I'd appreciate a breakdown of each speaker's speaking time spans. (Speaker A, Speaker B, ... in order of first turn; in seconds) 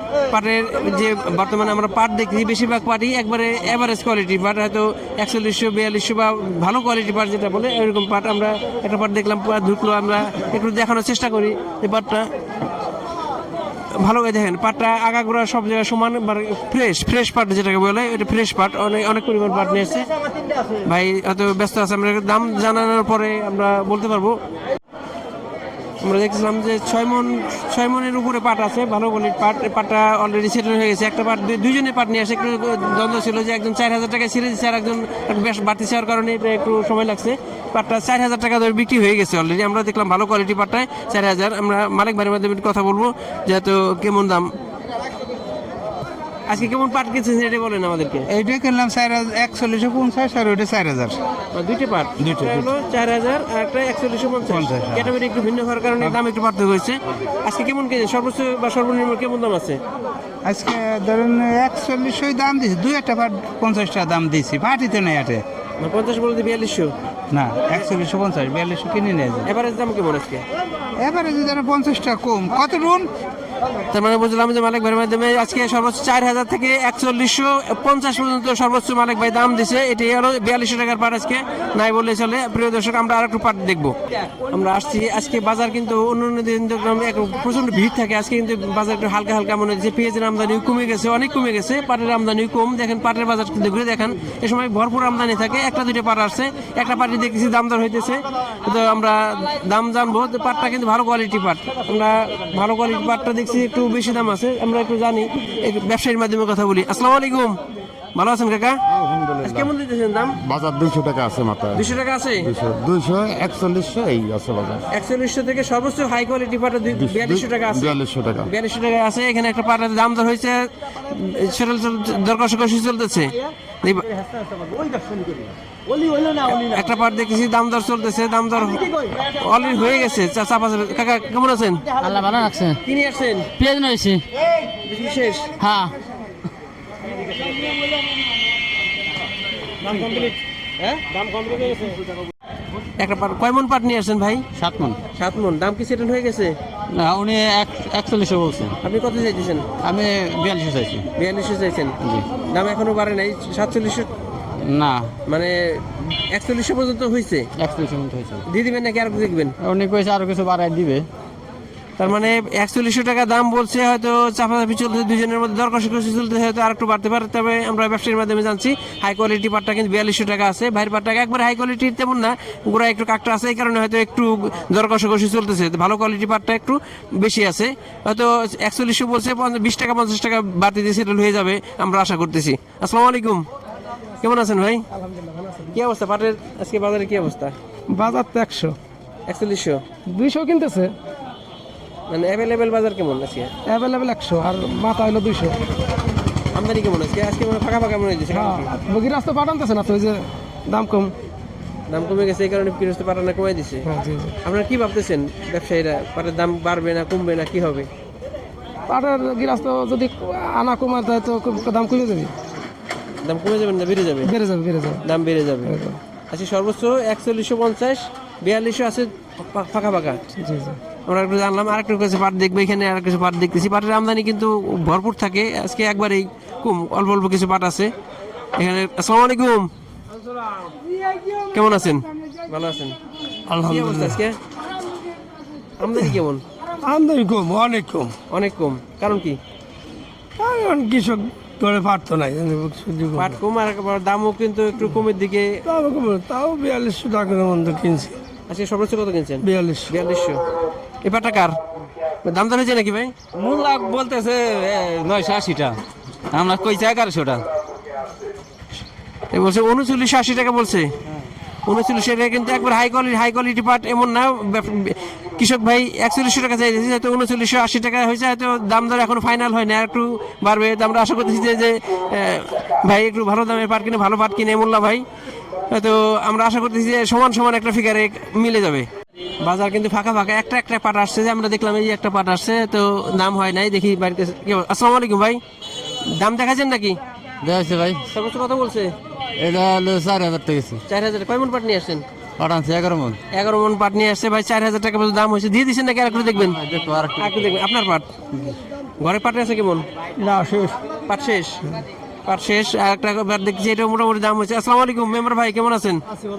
Speaker A: 0.3-12.3, 13.9-20.1, 20.8-24.4, 26.0-44.5, 46.5-48.3, 51.5-59.8, 65.8-66.9, 69.4-70.4, 73.9-83.9, 84.5-107.6, 108.1-108.8, 109.4-110.4, 111.7-112.5, 114.9-124.1, 126.3-131.9, 132.8-133.5, 134.8-135.5, 139.8-141.9, 143.0-144.4, 145.2-146.6, 148.8-149.7, 151.2-152.0, 152.5-154.1, 155.2-157.5, 158.5-159.5, 162.0-183.4, 184.2-184.8, 185.7-187.5, 189.3-189.8, 192.1-193.5, 196.5-198.8, 201.9-203.9, 204.4-207.9, 213.2-214.3, 215.0-215.7, 216.3-220.2, 221.1-227.9, 228.6-229.7, 231.5-232.9, 233.6-234.4, 235.8-236.4, 238.3-239.4, 243.1-245.5, 248.5-250.4, 251.0-251.6, 252.2-253.1, 259.3-260.9, 261.6-275.0, 275.7-278.9, 279.4-285.4, 286.1-287.0, 288.1-288.9, 290.9-292.0, 293.3-296.6, 297.2-298.1, 299.0-299.9, 301.1-301.6, 302.2-306.0
Speaker B: 48.3-51.2, 52.2-52.7, 54.5-55.1, 60.4-65.4, 67.3-69.5, 71.0-73.1
Speaker C: 108.9-109.7, 110.4-111.9, 112.4-114.8, 117.0-118.5
Speaker D: 132.0-132.8, 133.6-134.2, 135.6-135.9, 144.5-145.0, 146.9-148.8, 149.8-151.1, 152.0-152.3, 154.6-155.1, 157.6-158.4, 159.6-161.1, 253.3-255.8, 256.3-257.4, 287.4-288.0, 289.4-290.8, 292.4-293.2, 296.3-297.6
Speaker E: 185.1-185.5, 187.9-188.8, 190.1-190.9, 193.7-195.6, 198.3-201.1, 203.8-204.3, 208.9-212.3, 214.3-215.0, 215.7-216.0, 220.4-220.8, 233.5-234.2, 236.8-238.1, 240.4-243.3, 245.7-248.1, 249.4-249.9, 300.2-300.8